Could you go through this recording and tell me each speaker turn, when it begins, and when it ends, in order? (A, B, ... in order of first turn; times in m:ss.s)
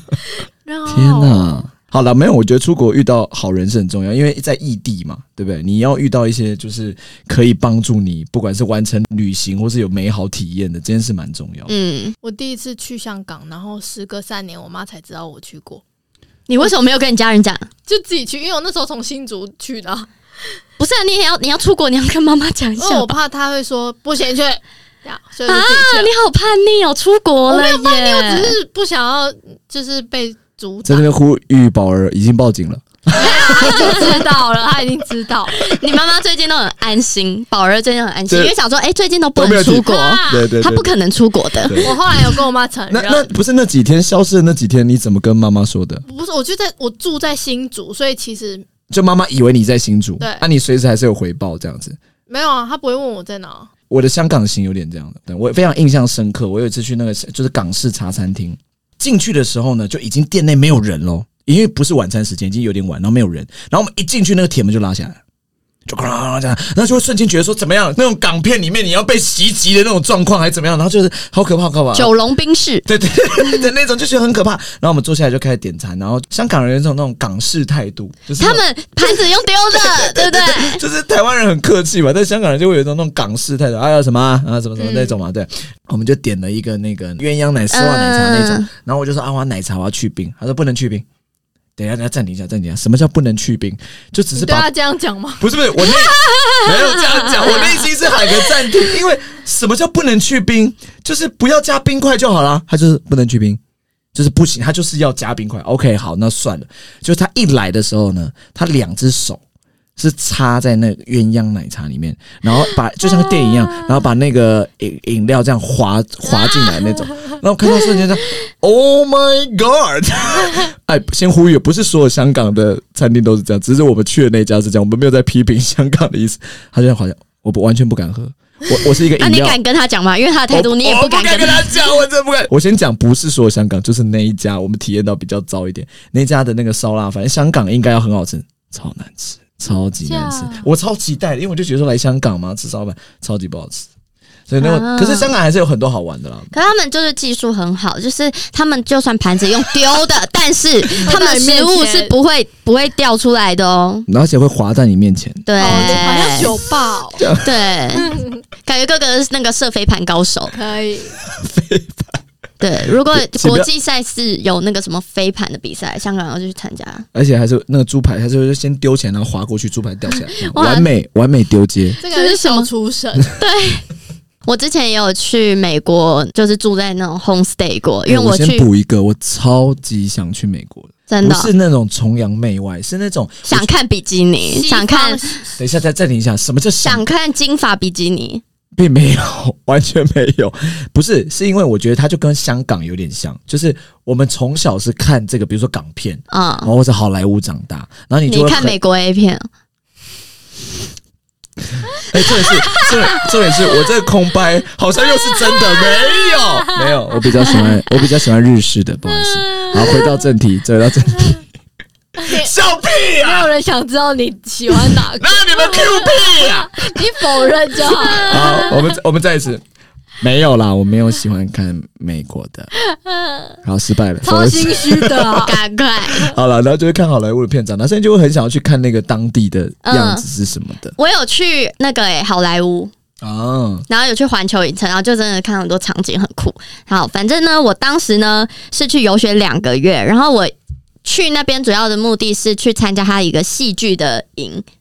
0:00.6-0:01.6 A
0:00.9-0:11.7 B
0:11.7-0:12.1 C
0:12.2-0:15.8 A
0:16.5-0:17.7 C
0:17.9-0:20.1 A
0:20.8-0:23.2 C
0:22.8-0:26.1 A
0:25.5-0:28.6 C
0:27.5-0:31.1 A
0:30.8-0:34.2 B
0:33.1-0:35.6 A
0:33.2-0:34.2 C
0:35.5-0:41.9 C
0:38.3-0:38.5 B
0:39.4-0:40.9 B
0:39.8-0:40.5 A
0:41.6-0:42.3 B
0:41.8-0:43.3 A
0:42.9-0:46.0 B
0:46.0-0:48.6 A
0:48.9-0:52.0 B
0:50.2-0:50.4 A
0:52.3-0:53.7 A
0:53.9-1:05.2 B
1:05.9-1:12.1 B
1:11.9-1:12.8 C
1:12.8-1:19.2 B
1:18.4-1:20.8 C
1:19.7-1:31.0 B
1:24.8-1:25.2 A
1:27.7-1:28.7 C
1:31.8-1:34.7 B
1:34.4-1:36.0 A
1:35.4-1:43.6 B
1:44.1-1:49.4 B
1:50.0-2:09.6 B
2:09.2-2:11.8 C
2:10.5-2:23.9 B
2:20.0-2:20.7 A
2:24.5-2:26.5 B
2:24.6-2:25.3 C
2:26.5-2:34.1 C
2:31.0-2:32.1 A
2:34.1-2:36.0 B
2:35.4-2:36.5 C
2:35.6-2:37.3 A
2:37.2-2:37.5 B
2:37.4-2:40.5 C
2:38.0-2:38.4 A
2:40.5-2:41.2 A
2:41.2-2:42.2 B
2:42.6-2:47.0 C
2:42.8-2:43.7 B
2:47.1-2:52.0 B
2:50.4-2:50.9 C
2:52.0-2:53.3 A
2:52.0-2:52.7 C
2:53.4-2:53.8 C
2:54.4-2:58.7 C
2:58.1-3:03.7 B
3:01.1-3:01.5 C
3:03.4-3:05.3 C
3:04.4-3:05.5 A
3:05.6-3:07.0 B
3:06.8-3:08.4 C
3:08.7-3:18.8 B
3:16.3-3:16.7 C
3:18.3-3:19.5 C
3:22.0-3:31.4 B
3:32.2-3:32.5 A
3:32.2-3:33.5 B
3:33.2-3:38.9 A
3:34.7-3:37.2 B
3:38.0-3:39.6 B
3:40.2-3:42.7 B
3:42.9-3:43.6 A
3:43.6-3:45.5 B
3:44.2-3:45.6 A
3:45.4-3:46.3 C
3:46.1-3:51.0 B
3:49.8-3:50.2 C
3:51.0-3:52.9 C
3:53.2-3:53.8 B
3:53.9-4:00.5 C
4:01.0-4:04.6 C